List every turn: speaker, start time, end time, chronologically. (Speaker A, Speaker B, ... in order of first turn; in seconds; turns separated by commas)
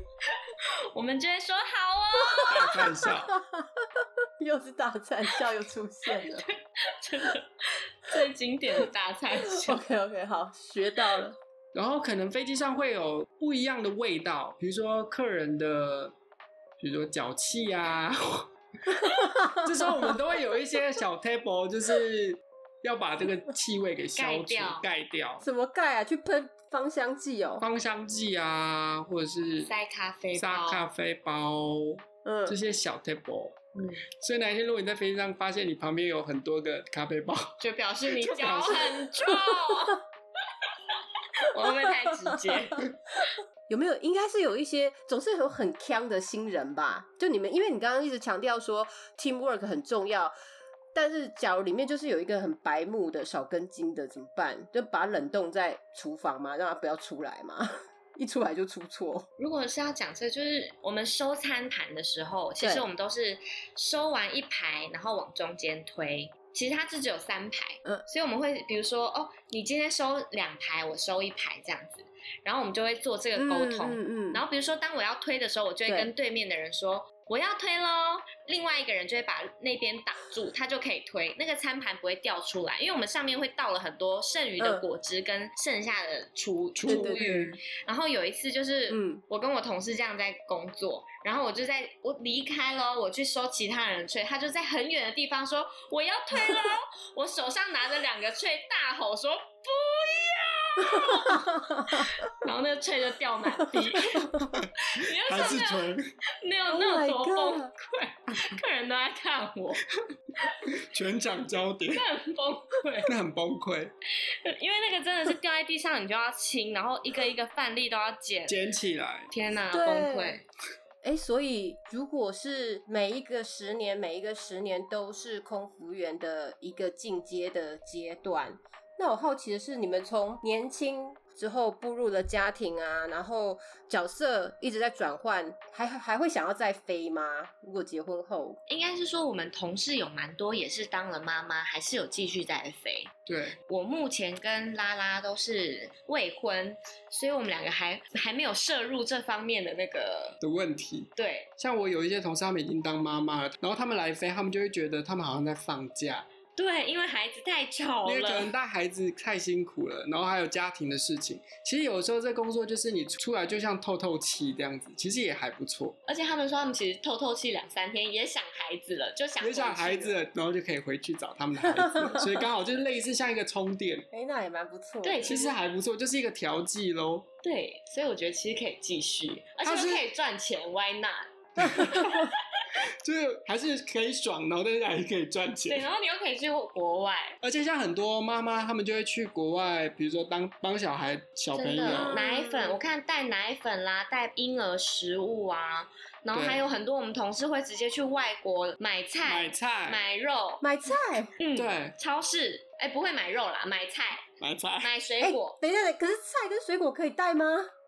Speaker A: 0.3-2.9, Speaker B: 2.2-6.5, Speaker C: 2.5-3.4, Speaker A: 6.2-9.8, Speaker B: 9.4-11.4, Speaker C: 11.8-16.1, Speaker C: 16.8-25.4, Speaker B: 18.9-20.2, Speaker A: 24.2-24.9, Speaker B: 25.4-27.6, Speaker C: 27.6-29.7, Speaker A: 29.6-30.9, Speaker C: 30.4-33.6, Speaker B: 32.2-32.6, Speaker A: 33.8-34.0, Speaker C: 34.2-37.6, Speaker A: 37.6-40.0, Speaker C: 38.1-39.1, Speaker A: 41.4-42.9, Speaker B: 41.6-42.7, Speaker B: 43.7-50.3, Speaker B: 50.9-59.3, Speaker A: 59.4-109.8, Speaker B: 62.6-62.9, Speaker B: 73.3-74.4, Speaker B: 75.9-76.1, Speaker B: 84.6-84.8, Speaker C: 86.8-87.6, Speaker B: 86.9-87.5, Speaker B: 88.9-89.2, Speaker B: 100.8-102.2, Speaker B: 103.6-104.4, Speaker C: 104.4-106.0, Speaker B: 106.7-107.7, Speaker C: 110.6-112.1, Speaker A: 111.9-113.1, Speaker C: 113.1-113.9, Speaker A: 114.4-118.6, Speaker C: 118.5-119.3, Speaker A: 119.3-120.4, Speaker B: 119.7-120.4, Speaker B: 121.0-138.6, Speaker A: 138.7-150.4, Speaker C: 143.3-143.6, Speaker C: 150.4-156.3, Speaker A: 151.2-151.5, Speaker A: 156.6-158.5, Speaker C: 158.1-166.0, Speaker A: 166.1-170.2, Speaker C: 169.4-174.1, Speaker B: 171.8-172.3, Speaker B: 174.1-175.4, Speaker A: 175.0-175.6, Speaker C: 175.2-177.3, Speaker A: 177.4-182.6, Speaker C: 179.6-180.1, Speaker C: 181.6-182.3, Speaker B: 181.6-182.3, Speaker C: 183.0-185.8, Speaker A: 185.7-187.4, Speaker C: 187.4-192.2, Speaker A: 191.6-200.6, Speaker B: 191.9-192.8, Speaker C: 196.3-196.6, Speaker C: 199.2-200.0, Speaker B: 200.6-201.3, Speaker A: 201.4-204.2, Speaker C: 201.6-201.9, Speaker C: 204.4-204.9, Speaker A: 204.8-205.6, Speaker B: 205.2-207.7